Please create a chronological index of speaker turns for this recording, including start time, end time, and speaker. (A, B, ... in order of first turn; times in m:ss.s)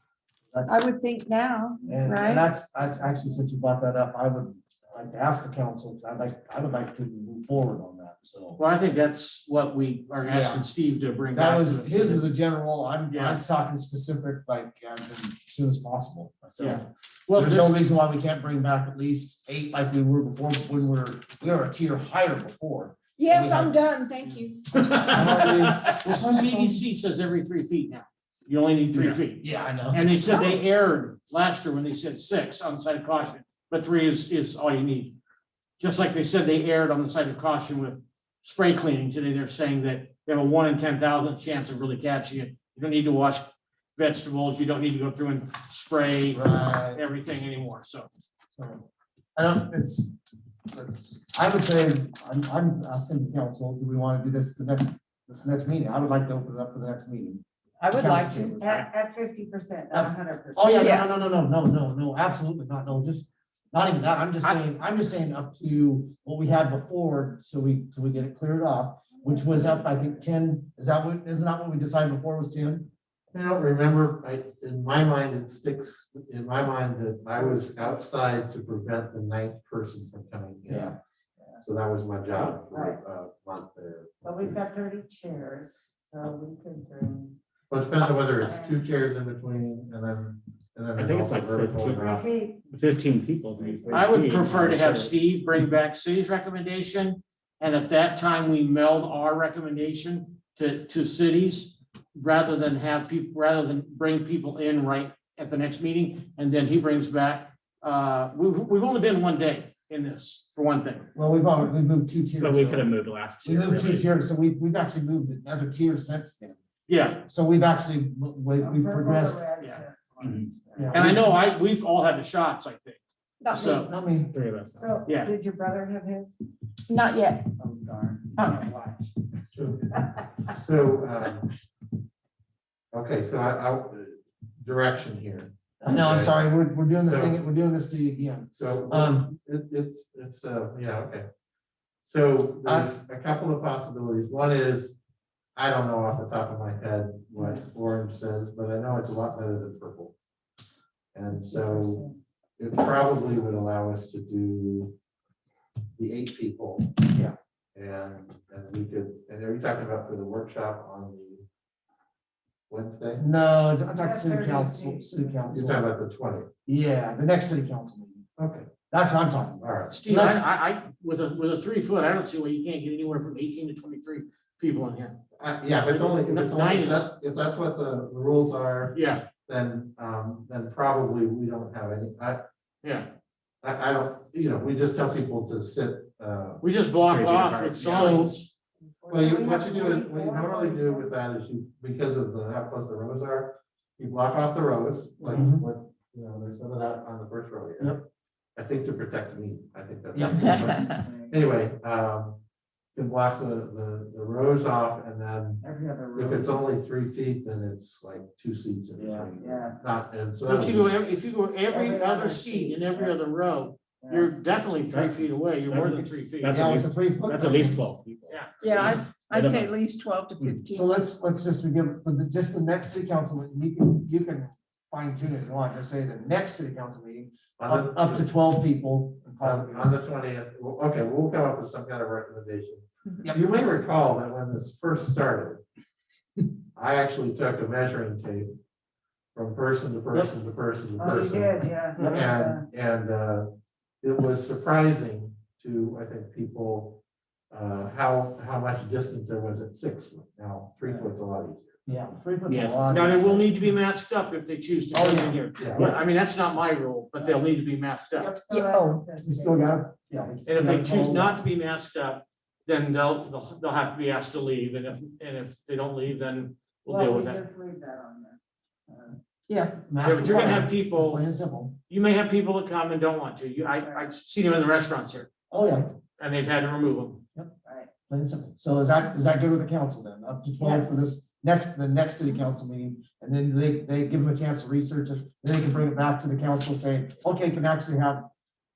0:00.5-0:00.8 A
0:00.7-0:02.4 B
0:01.9-0:08.6 A
0:08.6-0:12.3 C
0:10.2-0:10.7 A
0:11.3-0:23.8 A
0:13.1-0:13.4 C
0:16.6-0:17.8 C
0:23.2-0:24.8 B
0:24.2-0:35.2 C
0:24.8-0:26.7 A
0:28.9-0:29.2 D
0:29.4-0:30.0 A
0:30.3-0:30.5 B
0:35.8-0:48.1 C
0:46.3-0:47.0 A
0:48.6-0:48.8 A
0:49.4-0:50.2 A
0:50.7-0:58.6 A
0:57.8-0:58.4 B
0:58.4-1:01.0 E
0:59.9-1:12.9 A
1:09.1-1:10.2 E
1:13.3-1:20.9 F
1:17.4-1:18.0 E
1:20.7-1:20.9 A
1:21.6-1:24.6 F
1:22.7-1:23.0 E
1:24.2-1:27.4 E
1:27.7-1:32.3 F
1:28.4-1:28.8 E
1:31.0-1:32.1 D
1:32.0-1:32.7 E
1:32.7-1:35.2 D
1:33.9-1:51.1 C
1:51.2-1:52.9 A
1:52.4-1:54.1 D
1:53.4-1:56.6 A
1:56.9-1:57.2 C
1:57.3-1:59.4 A
1:58.6-2:01.1 E
2:00.2-2:00.5 D
2:00.8-2:01.2 A
2:00.9-2:03.9 C
2:03.4-2:03.7 B
2:03.5-2:04.3 A
2:04.3-2:05.0 D
2:04.8-2:06.4 E
2:05.0-2:05.3 C
2:06.9-2:07.5 B
2:07.6-2:08.9 E
2:09.6-2:10.0 F
2:10.5-2:11.5 F
2:12.9-2:16.4 F
2:15.8-2:19.3 A
2:17.0-2:17.4 F
2:18.6-2:21.3 F
2:22.0-2:25.0 F
2:22.6-2:22.9 A
2:25.6-2:30.1 F
2:27.4-2:27.6 E
2:31.1-2:32.0 F
2:31.3-2:32.2 E
2:32.6-2:34.9 F
2:36.0-2:37.0 F
2:37.8-2:41.4 F
2:42.7-2:43.2 F
2:43.2-2:45.9 A
2:43.9-2:45.5 E
2:45.5-2:46.5 F
2:46.7-2:48.2 A
2:48.4-2:48.7 F
2:48.9-2:50.5 A
2:49.6-2:50.0 F
2:49.9-2:55.2 C
2:55.4-3:02.4 F
2:55.9-2:57.1 C
2:58.9-2:59.2 C
3:02.8-3:03.1 C
3:03.6-3:06.6 F
3:06.6-3:08.5 C
3:07.0-3:08.4 D
3:07.9-3:08.4 A
3:09.0-3:11.1 E
3:09.1-3:22.4 F
3:15.2-3:15.6 A
3:20.1-3:20.7 A
3:21.0-3:21.4 E
3:23.0-3:31.0 F
3:25.6-3:26.6 E
3:29.0-3:29.3 A
3:29.4-3:29.8 E
3:30.4-3:36.6 C
3:31.7-3:33.2 E
3:34.0-3:34.3 E
3:34.9-3:37.8 A
3:35.7-3:39.8 D
3:38.6-3:41.0 B
3:40.4-3:40.8 D
3:40.7-3:49.9 A
3:47.6-3:48.3 F
3:49.4-3:55.6 F
3:56.8-3:58.6 F
3:59.3-4:03.5 F
4:01.0-4:02.7 E
4:02.0-4:02.3 A
4:04.0-4:11.8 F
4:11.9-4:13.6 A
4:12.5-4:12.9 D
4:12.9-4:18.3 C
4:14.9-4:16.1 A
4:15.6-4:15.9 F
4:17.2-4:17.5 E
4:18.2-4:19.8 E
4:18.5-4:19.0 B
4:19.2-4:21.4 A
4:20.5-4:27.4 C
4:26.9-4:29.2 E
4:29.8-4:31.8 A
4:30.0-4:31.2 C
4:31.9-4:35.3 C
4:33.8-4:34.1 E
4:35.5-4:35.9 A
4:36.2-4:37.2 C
4:37.6-4:37.9 E
4:38.1-4:48.3 A
4:40.6-4:40.9 E